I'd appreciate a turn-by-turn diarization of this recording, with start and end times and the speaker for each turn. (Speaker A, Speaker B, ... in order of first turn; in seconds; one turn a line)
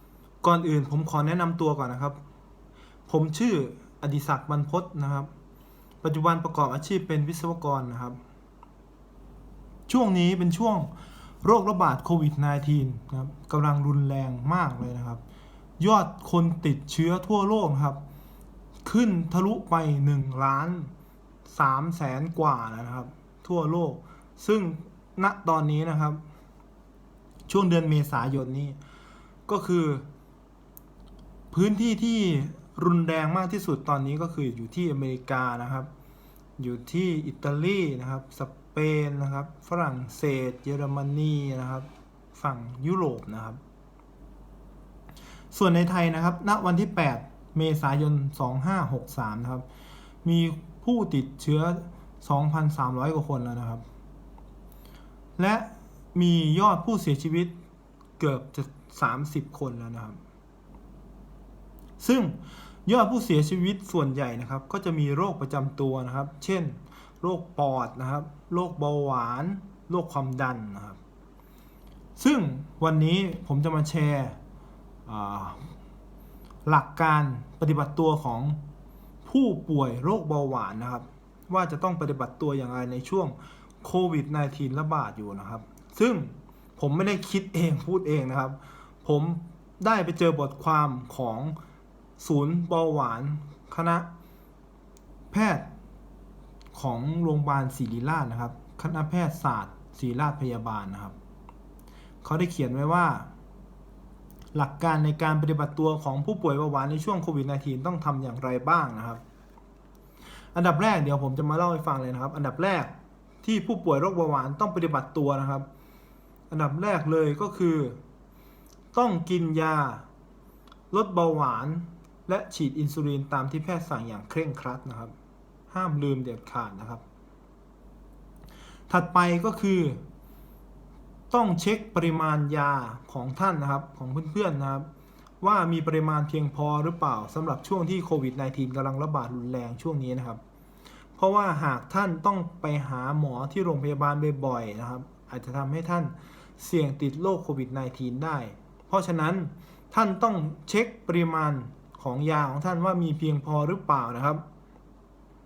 Speaker A: 0.4-2.2
Speaker A: 3.1-5.3
Speaker A: 6.0-8.2
Speaker A: 9.9-10.9
Speaker A: 11.4-15.2
Speaker A: 15.8-18.0
Speaker A: 18.9-20.9
Speaker A: 21.5-26.2
Speaker A: 27.5-28.8
Speaker A: 29.5-30.1
Speaker A: 31.5-35.9
Speaker A: 36.6-43.6
Speaker A: 45.5-49.6
Speaker A: 50.2-53.8
Speaker A: 55.4-57.5
Speaker A: 58.2-60.2
Speaker A: 62.0-71.0
Speaker A: 72.2-74.4
Speaker A: 75.1-75.7
Speaker A: 76.7-78.6
Speaker A: 79.2-91.6
Speaker A: 92.2-94.1
Speaker A: 95.3-95.7
Speaker A: 96.8-101.2
Speaker A: 102.2-103.3
Speaker A: 104.5-109.2
Speaker A: 110.5-115.7
Speaker A: 116.5-118.0
Speaker A: 118.9-120.0
Speaker A: 120.9-125.1
Speaker A: 125.7-127.0
Speaker A: 128.9-130.0
Speaker A: 131.3-134.9
Speaker A: 135.4-140.4
Speaker A: 141.2-154.4